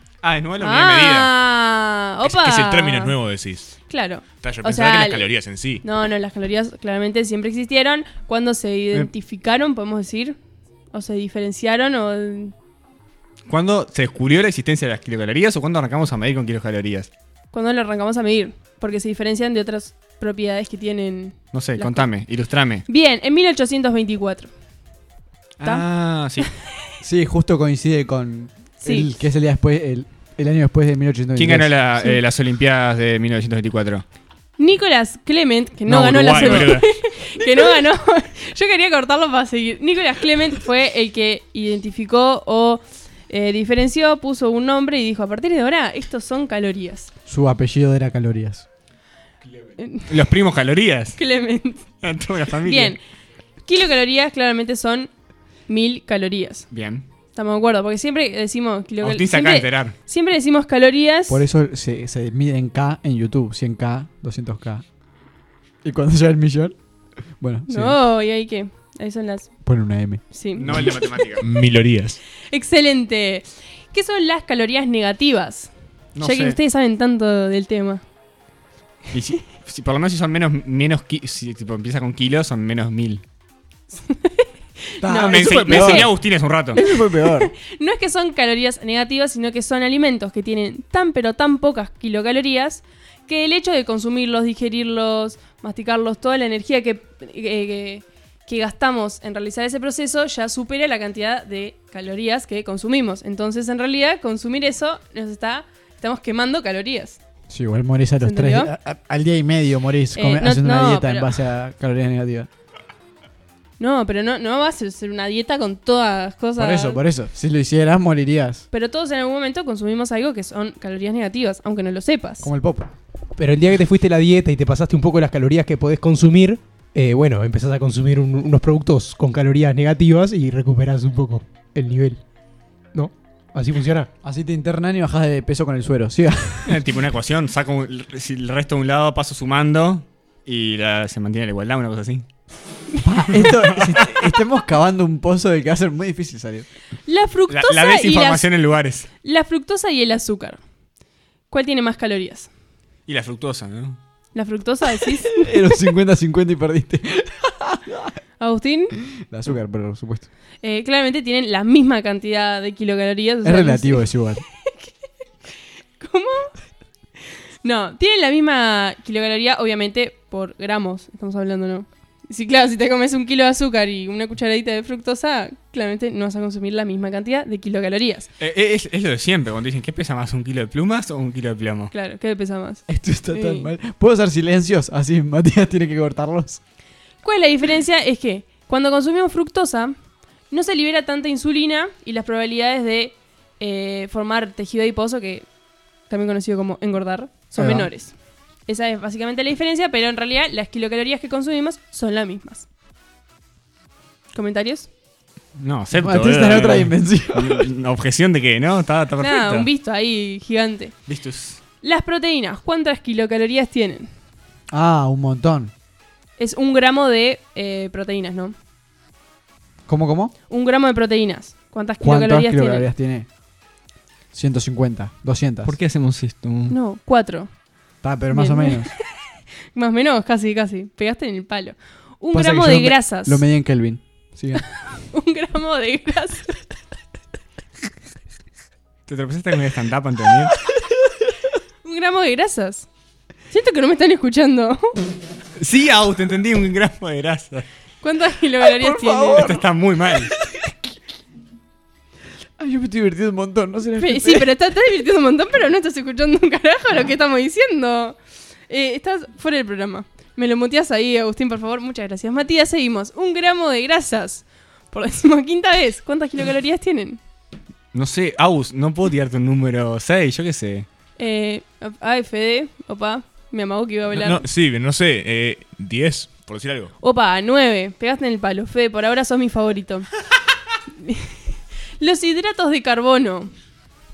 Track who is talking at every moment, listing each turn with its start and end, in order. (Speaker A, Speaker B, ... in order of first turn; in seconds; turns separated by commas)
Speaker A: 0.2-1.3, Speaker B: 0.6-3.2, Speaker C: 2.2-3.7, Speaker B: 3.9-5.3, Speaker C: 4.4-5.8, Speaker B: 5.8-10.4, Speaker B: 10.9-12.5, Speaker A: 13.5-17.1, Speaker B: 17.5-22.1, Speaker A: 21.5-22.9, Speaker B: 22.9-24.5, Speaker A: 25.6-26.5, Speaker D: 27.0-32.1, Speaker B: 28.8-29.1, Speaker A: 31.4-34.0, Speaker B: 34.6-47.1, Speaker A: 35.9-36.9, Speaker D: 47.3-48.7, Speaker B: 49.8-50.1, Speaker A: 50.1-51.2, Speaker B: 51.2-51.9, Speaker A: 52.0-53.0, Speaker B: 52.6-53.0, Speaker B: 53.7-55.1, Speaker B: 55.7-56.7, Speaker A: 56.7-57.0, Speaker B: 57.3-61.4, Speaker A: 59.0-59.9, Speaker D: 61.3-64.8, Speaker D: 65.8-66.8, Speaker D: 67.3-68.0, Speaker B: 67.7-69.5, Speaker D: 69.7-70.2, Speaker B: 70.3-71.2, Speaker A: 70.6-71.4, Speaker C: 71.4-72.2, Speaker B: 72.5-78.0, Speaker A: 76.2-76.6, Speaker A: 79.1-83.2, Speaker B: 84.1-86.1, Speaker D: 85.0-86.1, Speaker A: 85.2-86.8, Speaker D: 86.7-87.5, Speaker B: 86.7-107.2, Speaker D: 107.5-112.5, Speaker B: 108.2-108.7, Speaker B: 110.2-111.3, Speaker B: 113.8-117.0, Speaker D: 116.6-118.6, Speaker B: 118.7-122.5, Speaker D: 122.4-122.9, Speaker E: 123.4-132.2, Speaker E: 132.9-134.1, Speaker D: 134.2-136.8, Speaker A: 136.7-142.3, Speaker D: 143.0-146.7, Speaker A: 143.3-144.1, Speaker B: 147.1-148.5, Speaker A: 147.5-149.1, Speaker B: 149.2-150.6, Speaker B: 151.5-152.5, Speaker A: 153.1-154.0, Speaker B: 154.3-155.5, Speaker D: 155.3-158.1, Speaker B: 158.4-158.9, Speaker D: 159.1-160.3, Speaker B: 160.6-164.1, Speaker D: 163.4-164.4, Speaker B: 166.0-166.5, Speaker B: 167.6-178.3, Speaker A: 178.4-181.9, Speaker B: 181.9-183.7, Speaker D: 182.9-186.6, Speaker B: 187.2-189.9, Speaker B: 190.5-195.5, Speaker B: 196.1-198.1, Speaker D: 197.6-197.9, Speaker B: 198.7-202.7, Speaker B: 204.3-204.9, Speaker A: 205.6-209.7, Speaker D: 205.9-207.7, Speaker B: 209.2-210.9, Speaker A: 211.1-211.6, Speaker B: 211.8-214.1, Speaker D: 214.7-215.7, Speaker B: 216.4-218.5, Speaker D: 219.9-220.3, Speaker B: 220.5-222.9, Speaker D: 222.0-223.3, Speaker D: 224.3-225.8, Speaker A: 225.7-226.8, Speaker B: 226.7-227.5, Speaker D: 228.0-228.9, Speaker B: 228.3-229.0, Speaker B: 229.7-233.4, Speaker D: 232.3-234.7, Speaker B: 234.7-236.7, Speaker A: 239.1-240.6, Speaker B: 241.8-242.9, Speaker B: 243.5-245.0, Speaker A: 245.6-247.7, Speaker B: 248.0-249.6, Speaker D: 248.6-249.7, Speaker A: 249.4-250.3, Speaker D: 250.2-250.7, Speaker D: 252.6-254.5, Speaker B: 254.0-258.2, Speaker B: 258.7-267.2, Speaker A: 267.9-270.9, Speaker B: 271.2-274.5, Speaker C: 274.1-276.9, Speaker B: 277.0-280.1, Speaker B: 280.9-281.4, Speaker B: 282.0-283.5